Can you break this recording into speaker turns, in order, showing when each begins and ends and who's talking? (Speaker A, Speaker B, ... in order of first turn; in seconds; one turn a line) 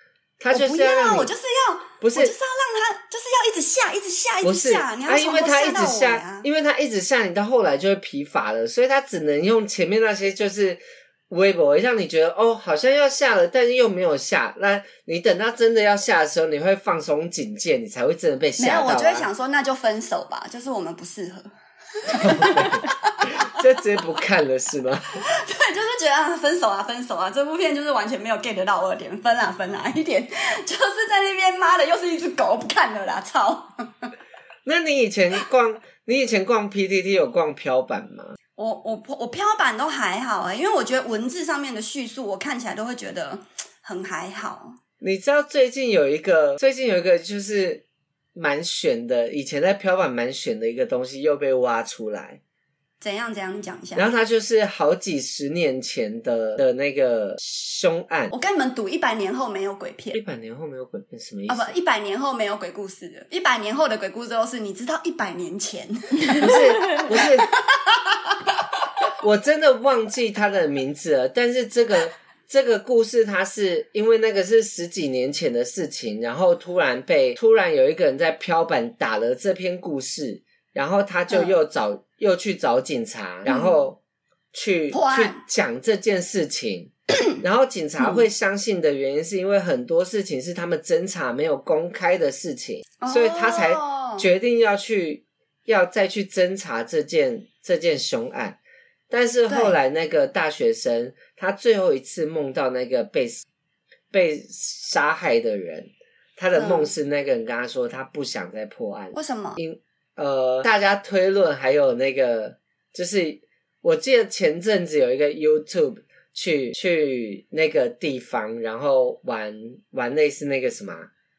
Speaker A: 0.4-1.3
Speaker B: 0.5-6.5
Speaker A: 2.0-2.3
Speaker A: 4.4-19.3
Speaker B: 18.6-23.6
Speaker A: 22.1-25.2
Speaker B: 25.2-34.1
Speaker A: 34.6-38.3
Speaker B: 38.6-44.8
Speaker A: 45.0-47.8
Speaker A: 48.3-52.4
Speaker B: 53.0-54.1
Speaker A: 54.0-58.3
Speaker B: 58.3-60.2
Speaker A: 60.1-61.8
Speaker B: 61.5-68.2
Speaker A: 66.3-67.5
Speaker A: 69.2-84.0
Speaker B: 81.3-81.5
Speaker B: 83.5-83.8
Speaker A: 84.5-98.6
Speaker B: 84.9-85.4
Speaker B: 93.0-94.3
Speaker A: 99.1-103.4
Speaker B: 99.5-99.8
Speaker A: 104.1-121.1
Speaker B: 106.5-106.9
Speaker B: 109.1-109.6